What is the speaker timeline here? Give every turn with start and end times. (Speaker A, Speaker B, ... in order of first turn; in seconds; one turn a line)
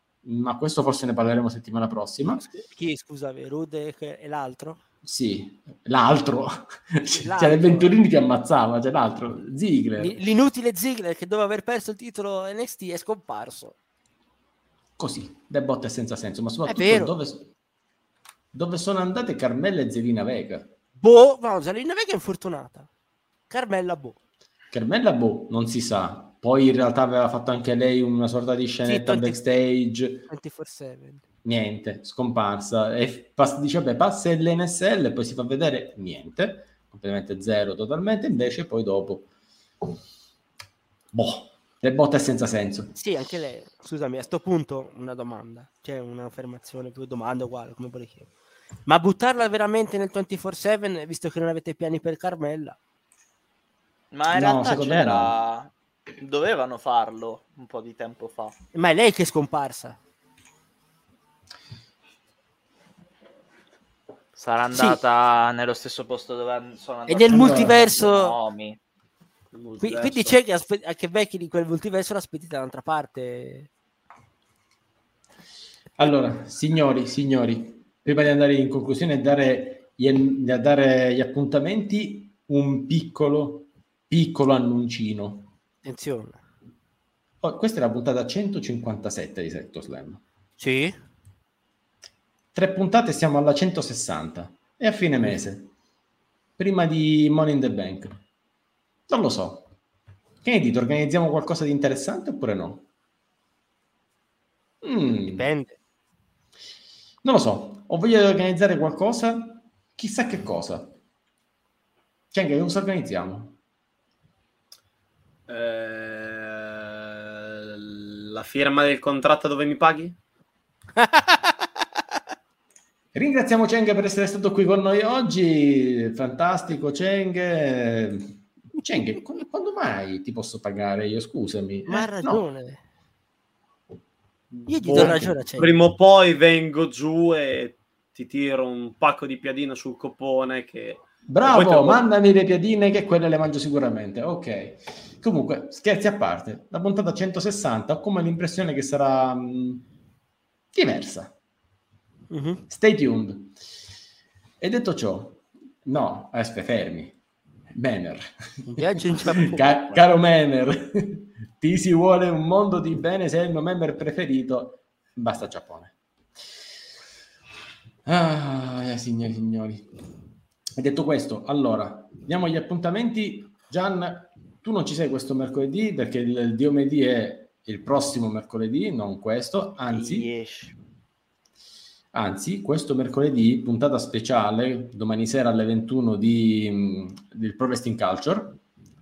Speaker A: 0.2-2.4
Speaker B: 2.2-4.8
Speaker A: 5.0-10.2
Speaker B: 7.1-8.0
Speaker B: 10.0-13.7
Speaker A: 15.0-17.5
Speaker B: 16.7-17.1
Speaker A: 18.5-20.7
Speaker B: 21.0-22.9
Speaker B: 23.5-24.2
Speaker A: 24.7-30.3
Speaker B: 28.8-29.4
Speaker B: 30.3-31.2
Speaker A: 31.4-39.3
Speaker A: 41.1-42.9
Speaker B: 42.9-48.3
Speaker B: 48.8-52.8
Speaker C: 54.1-58.5
Speaker A: 54.3-55.4
Speaker B: 58.7-60.0
Speaker C: 64.3-68.8
Speaker B: 64.7-65.0
Speaker B: 67.1-68.3
Speaker A: 67.4-67.7
Speaker D: 69.5-70.3
Speaker B: 69.8-73.7
Speaker A: 76.0-85.5
Speaker B: 85.8-86.4
Speaker A: 87.4-90.2
Speaker B: 90.6-91.0
Speaker A: 92.5-95.7
Speaker A: 96.6-98.2
Speaker A: 99.1-99.7
Speaker A: 100.4-102.8
Speaker A: 104.8-105.5
Speaker B: 105.3-105.8
Speaker A: 107.2-111.0
Speaker A: 112.3-113.5
Speaker D: 115.5-120.2
Speaker B: 121.0-121.7
Speaker A: 123.1-132.4
Speaker B: 131.9-132.8
Speaker A: 134.5-135.4
Speaker B: 134.7-135.8
Speaker D: 134.9-142.0
Speaker A: 141.3-149.8
Speaker A: 150.7-151.3
Speaker B: 152.3-152.6
Speaker A: 152.7-153.6
Speaker A: 154.6-157.2
Speaker A: 157.7-165.9
Speaker B: 158.7-160.0
Speaker A: 168.1-169.9
Speaker A: 170.8-180.3
Speaker C: 179.9-180.7
Speaker A: 182.1-188.6